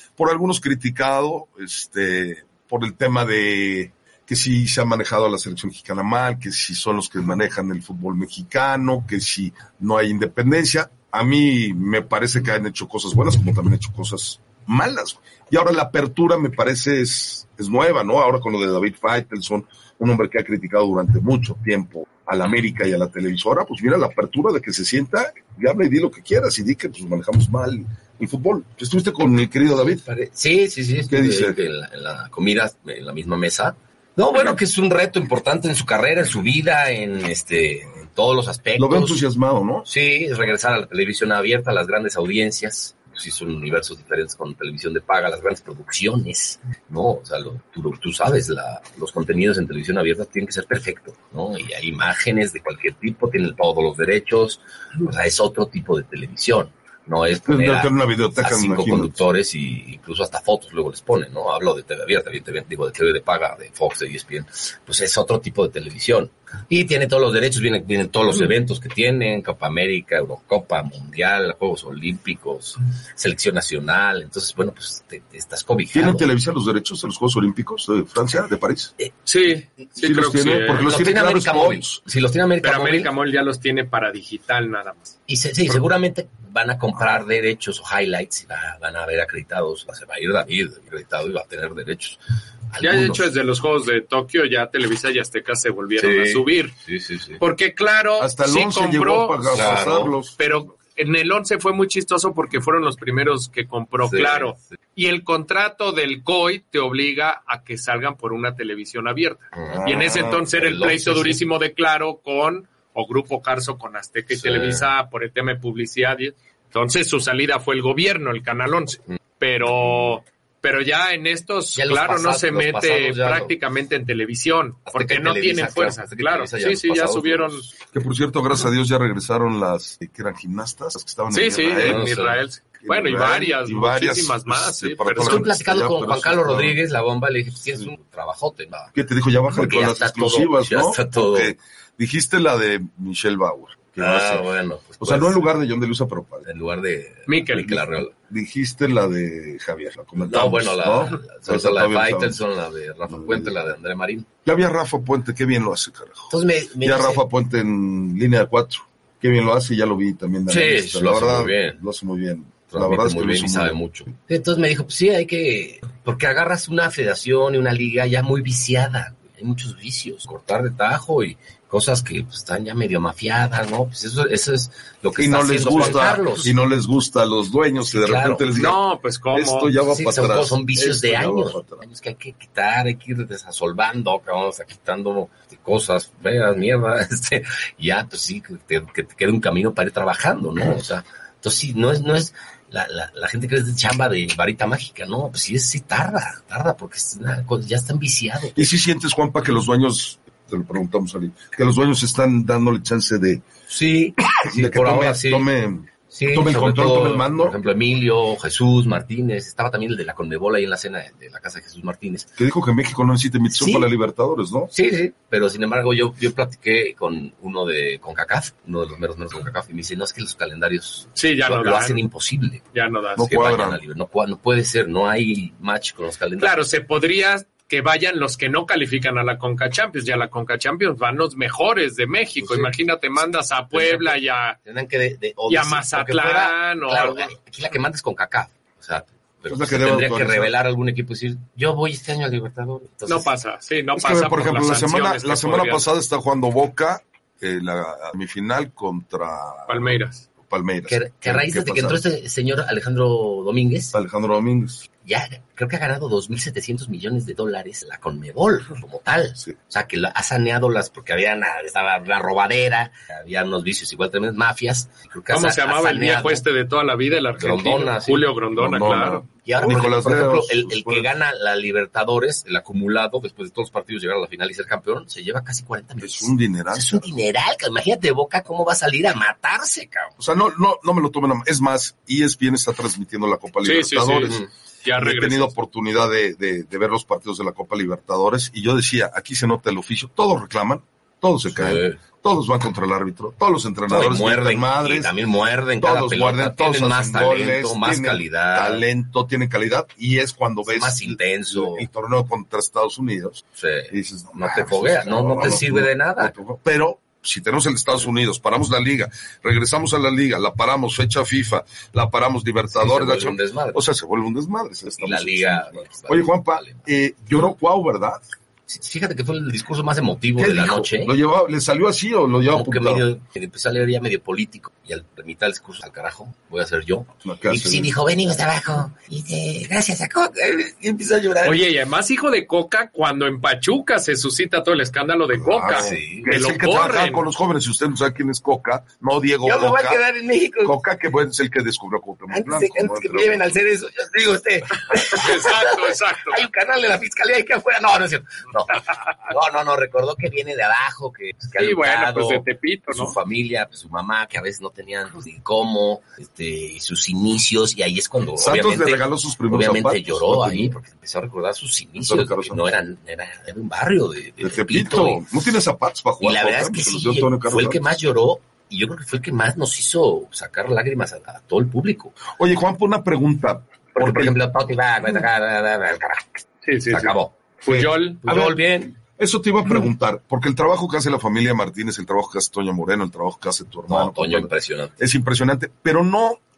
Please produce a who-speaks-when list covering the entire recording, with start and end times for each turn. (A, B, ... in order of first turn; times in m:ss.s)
0:00.2-0:30.0 A
0:29.7-0:39.2 B
0:31.1-0:31.6 A
0:38.8-0:39.9 A
0:39.8-1:16.3 B
0:57.4-0:59.2 A
1:15.9-1:18.9 A
1:19.2-1:20.9 C
1:20.0-1:22.0 A
1:20.8-1:23.1 B
1:22.6-1:25.1 C
1:25.3-1:32.2 B
1:32.7-1:33.3 B
1:32.8-1:36.8 C
1:36.0-1:37.4 B
1:37.4-1:39.5 C
1:38.2-1:40.4 A
1:39.5-1:40.2 B
1:40.4-2:07.7 C
1:44.0-1:44.6 B
1:49.5-1:51.4 B
1:49.7-1:50.4 A
1:54.3-1:54.9 B
2:01.7-2:03.5 B
2:04.9-2:07.7 B
2:07.9-2:12.0 A
2:11.3-2:15.5 C
2:11.8-2:12.4 B
2:12.8-2:16.8 A
2:15.2-2:18.9 B
2:18.9-2:26.4 A
2:19.5-2:21.5 B
2:24.0-2:25.5 B
2:26.4-2:28.1 B
2:27.3-2:27.8 C
2:28.2-2:32.4 A
2:30.2-2:34.3 B
2:33.1-2:33.5 A
2:34.4-2:43.8 A
2:36.3-2:37.2 B
2:40.5-2:41.8 B
2:42.7-2:56.5 B
2:55.2-3:01.8 A
2:57.8-2:58.5 B
2:58.6-2:59.7 C
2:59.8-3:18.7 B
3:18.5-3:23.4 A
3:23.7-3:25.5 B
3:24.4-3:27.6 A
3:26.1-3:32.3 B
3:32.4-3:34.7 A
3:33.6-3:33.9 B
3:34.7-3:42.6 B
3:41.2-3:42.0 C
3:42.7-3:43.5 C
3:43.2-3:43.8 A
3:43.2-3:46.6 B
3:46.4-3:54.6 C
3:52.4-3:52.7 B
3:53.7-4:03.3 B
3:55.5-3:57.3 C
3:59.5-4:00.5 A
4:03.1-4:05.8 C
4:03.9-4:12.0 A
4:09.7-4:10.2 C
4:10.9-4:13.9 B
4:13.9-4:14.8 A
4:15.0-4:26.4 B
4:25.3-4:29.2 C
4:27.4-4:28.3 B
4:28.6-4:31.1 A
4:29.4-4:40.1 B
4:36.0-4:37.1 A
4:40.2-4:44.4 A
4:43.6-4:45.5 C
4:45.0-4:55.1 A
4:51.5-4:52.0 B
4:53.9-4:58.8 B
4:55.8-5:18.2 A
5:00.7-5:01.9 B
5:03.6-5:06.3 B
5:12.7-5:13.8 B
5:14.9-5:16.9 B
5:18.7-5:21.1 B
5:20.4-5:23.0 A
5:22.5-5:31.6 B
5:27.2-5:27.9 A
5:31.4-5:37.2 C
5:35.3-5:40.0 A
5:35.7-5:36.4 B
5:39.4-5:40.8 B
5:40.6-5:43.5 A
5:42.3-6:05.2 B
5:45.0-5:46.4 C
5:51.6-5:53.2 C
5:58.4-6:00.8 A
6:02.0-6:02.6 A
6:04.4-6:07.8 A
6:06.2-6:12.2 B
6:12.3-6:14.4 A
6:13.9-6:17.4 B
6:16.6-6:18.2 C
6:17.6-6:26.4 A
6:18.2-6:18.9 B
6:23.9-6:25.0 B